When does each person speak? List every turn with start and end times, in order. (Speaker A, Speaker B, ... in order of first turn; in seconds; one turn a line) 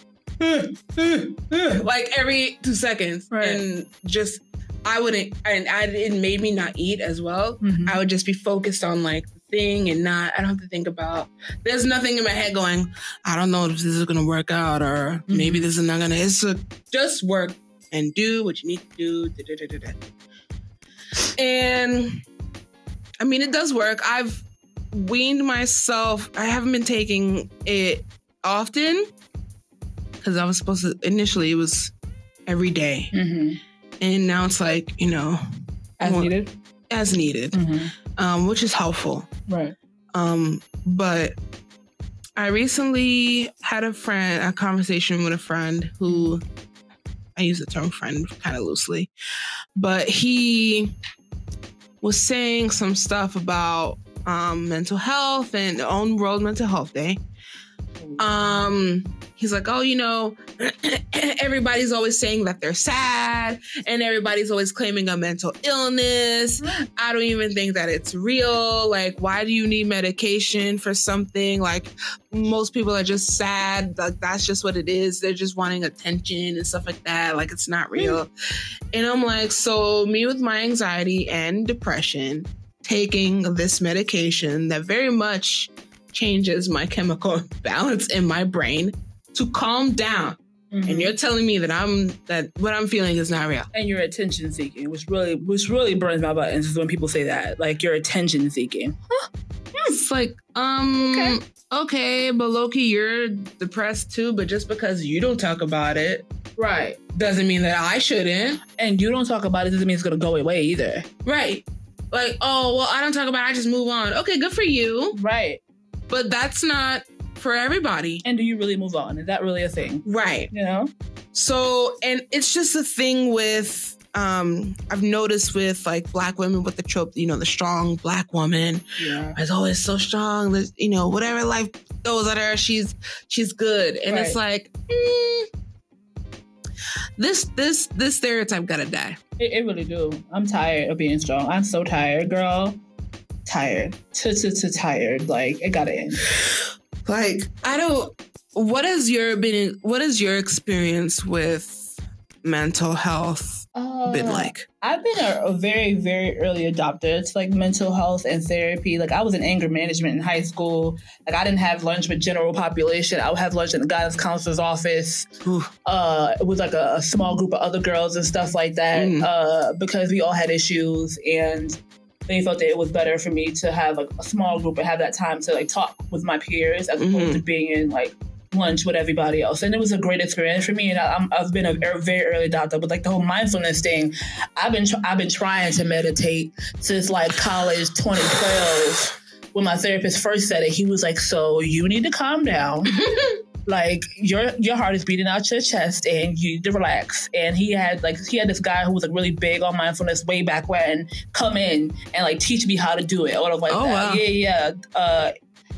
Speaker A: 0.4-1.3
Speaker B: 1.5-20.0
Speaker A: 3.3-3.6
Speaker A: 7.6-8.0
Speaker A: 15.3-15.7
Speaker B: 21.4-22.2
Speaker B: 23.2-29.1
Speaker B: 30.2-31.9
Speaker B: 32.5-33.1
Speaker A: 33.1-33.6
Speaker B: 34.0-35.4
Speaker A: 36.0-36.5
Speaker B: 36.0-36.3
Speaker B: 36.9-39.3
Speaker A: 37.5-37.9
Speaker A: 39.5-39.8
Speaker B: 40.1-41.4
Speaker B: 42.4-46.4
Speaker A: 46.1-46.4
Speaker B: 47.4-49.1
Speaker B: 49.8-51.0
Speaker B: 52.0-57.2
Speaker A: 58.0-58.7
Speaker B: 58.2-78.3
Speaker B: 78.9-93.7
Speaker A: 90.7-91.1
Speaker A: 93.7-99.2
Speaker B: 99.9-106.3
Speaker A: 101.0-101.4
Speaker A: 106.6-107.0
Speaker B: 107.1-108.6
Speaker A: 108.8-111.1
Speaker B: 111.2-115.2
Speaker A: 115.1-115.6
Speaker B: 116.1-118.2
Speaker A: 118.2-120.9
Speaker B: 120.0-120.5
Speaker B: 121.3-135.5
Speaker A: 129.0-129.4
Speaker A: 134.1-134.4
Speaker B: 137.2-139.2
Speaker A: 139.4-142.8
Speaker A: 143.5-146.2
Speaker B: 147.1-154.7
Speaker A: 153.8-165.3
Speaker B: 165.4-165.7
Speaker A: 165.8-205.3
Speaker B: 168.9-169.3
Speaker B: 177.0-177.4
Speaker B: 192.9-193.3
Speaker B: 203.7-204.2